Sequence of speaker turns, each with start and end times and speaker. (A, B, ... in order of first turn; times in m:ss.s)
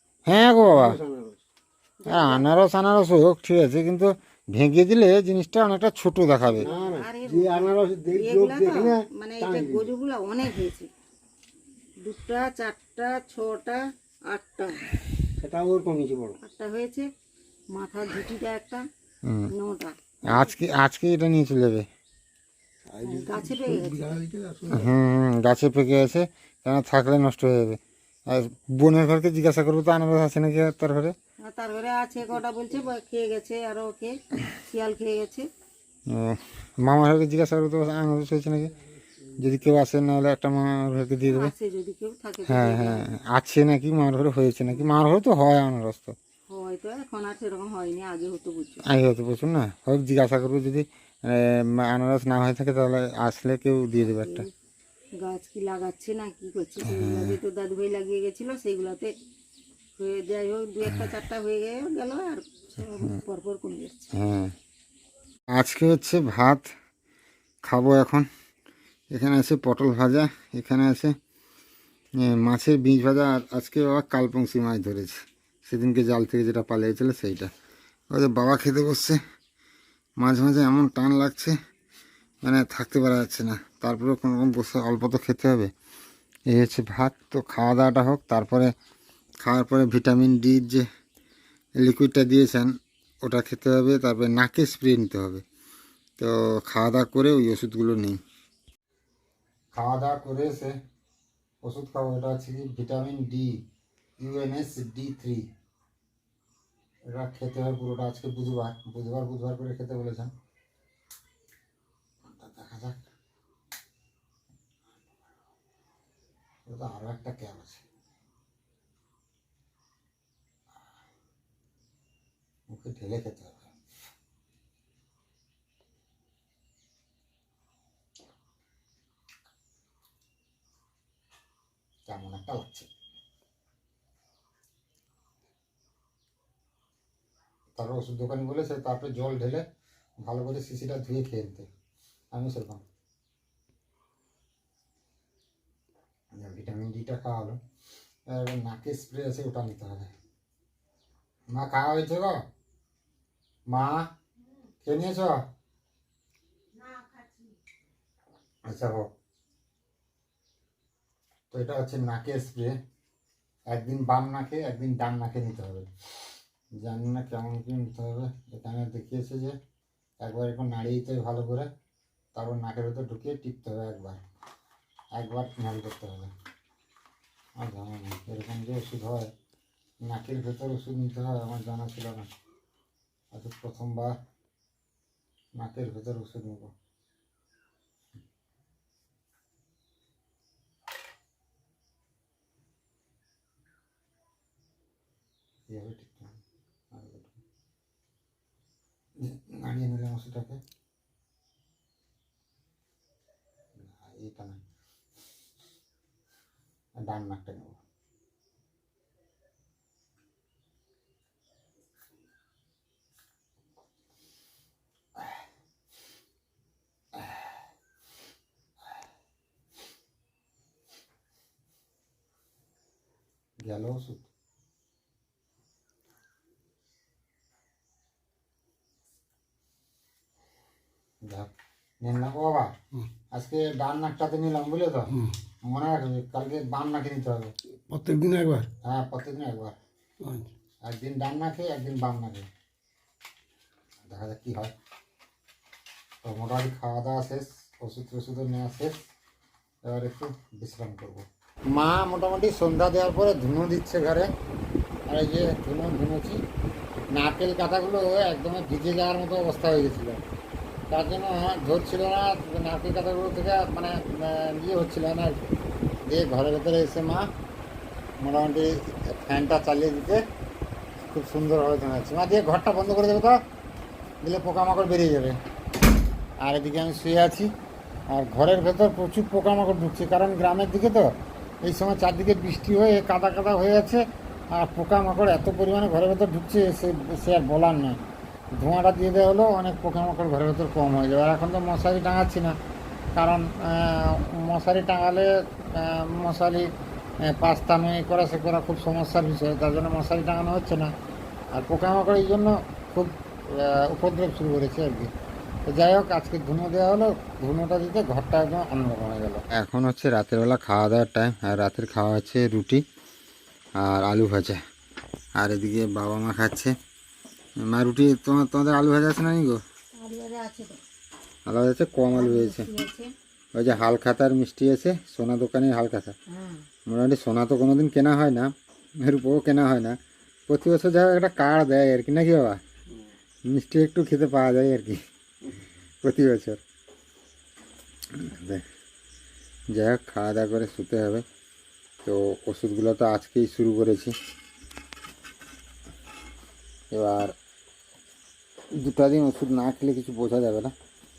0:00.3-0:01.0 A
0:00.7-0:01.4 B
0:02.0-0:02.5 C
0:02.1-0:06.7 A
0:06.5-0:10.9 C
0:06.6-0:09.9 B
0:12.0-0:14.8 C
0:15.4-0:16.4 B
0:16.4-0:17.1 C
0:17.7-0:18.8 C
0:19.2-0:19.5 A
0:19.5-0:20.5 C
0:20.3-0:21.9 A
0:22.9-0:24.9 B
0:23.0-0:24.1 C
0:24.7-0:31.2 A
0:31.4-0:35.5 C
0:36.1-0:38.8 A
0:39.4-0:41.5 A
0:41.3-0:43.1 C
0:42.5-0:46.2 A
0:46.5-0:48.8 C
0:48.8-0:54.5 A
0:54.0-0:54.5 C
0:55.2-0:59.1 C
0:56.8-0:57.4 A
1:00.0-1:04.1 C
1:00.8-1:01.1 A
1:04.1-1:04.5 A
1:05.5-1:06.7 A
1:07.6-1:08.3 A
1:09.1-1:11.2 A
1:12.2-1:17.5 A
1:18.1-1:19.2 A
1:20.2-1:21.5 A
1:22.4-1:25.7 A
1:26.5-1:28.7 A
1:29.4-1:30.8 A
1:31.8-1:35.4 A
1:36.2-1:38.2 A
1:39.7-1:40.8 A
1:41.6-1:43.6 A
1:44.2-1:45.5 A
1:47.1-1:50.3 A
1:52.3-1:53.1 A
1:56.7-1:57.8 A
2:02.7-2:03.7 A
2:12.1-2:12.9 A
2:17.8-2:19.6 A
2:20.2-2:21.7 A
2:22.3-2:22.8 A
2:26.4-2:27.6 A
2:28.3-2:30.1 A
2:31.5-2:32.4 A
2:33.7-2:34.1 A
2:34.8-2:35.4 A
2:36.7-2:37.6 C
2:38.7-2:39.1 A
2:41.5-2:42.8 A
2:43.7-2:45.9 A
2:46.8-2:49.6 A
2:50.2-2:51.7 A
2:52.3-2:54.2 A
2:55.2-2:56.3 A
2:57.6-2:59.3 A
3:00.0-3:02.3 A
3:03.3-3:04.2 A
3:05.6-3:06.7 A
3:15.7-3:16.4 A
3:16.9-3:17.4 A
3:19.2-3:20.6 A
3:23.8-3:24.6 A
3:27.0-3:27.8 A
3:37.2-3:37.5 A
3:43.6-3:44.3 A
3:51.2-3:51.5 A
3:52.0-3:52.7 A
3:53.3-3:57.5 A
3:57.9-3:58.7 B
3:58.8-3:59.8 A
4:00.2-4:00.5 B
4:00.8-4:02.5 A
4:04.0-4:04.7 A
4:06.2-4:09.0 A
4:09.8-4:14.3 A
4:15.1-4:16.4 A
4:17.1-4:20.2 A
4:20.9-4:25.4 A
4:26.1-4:27.3 A
4:28.2-4:30.2 A
4:31.1-4:33.4 A
4:34.2-4:35.4 A
4:36.4-4:37.5 A
4:38.1-4:41.1 A
4:41.6-4:44.0 A
4:44.5-4:48.0 A
4:48.6-4:52.6 A
4:53.2-4:56.7 A
4:57.2-5:00.9 A
5:01.5-5:05.1 A
5:05.7-5:12.8 A
5:13.8-5:14.6 A
5:15.4-5:16.7 A
5:17.6-5:19.6 A
5:20.0-5:20.8 C
5:21.5-5:22.7 A
5:22.2-5:23.1 C
5:23.5-5:26.2 A
5:26.3-5:26.7 C
5:26.9-5:30.0 A
5:30.5-5:32.6 A
5:33.5-5:35.0 A
5:36.0-5:36.6 A
5:38.1-5:38.6 A
5:39.7-5:41.2 A
5:42.0-5:44.2 A
5:46.9-5:47.4 A
5:48.7-5:50.7 A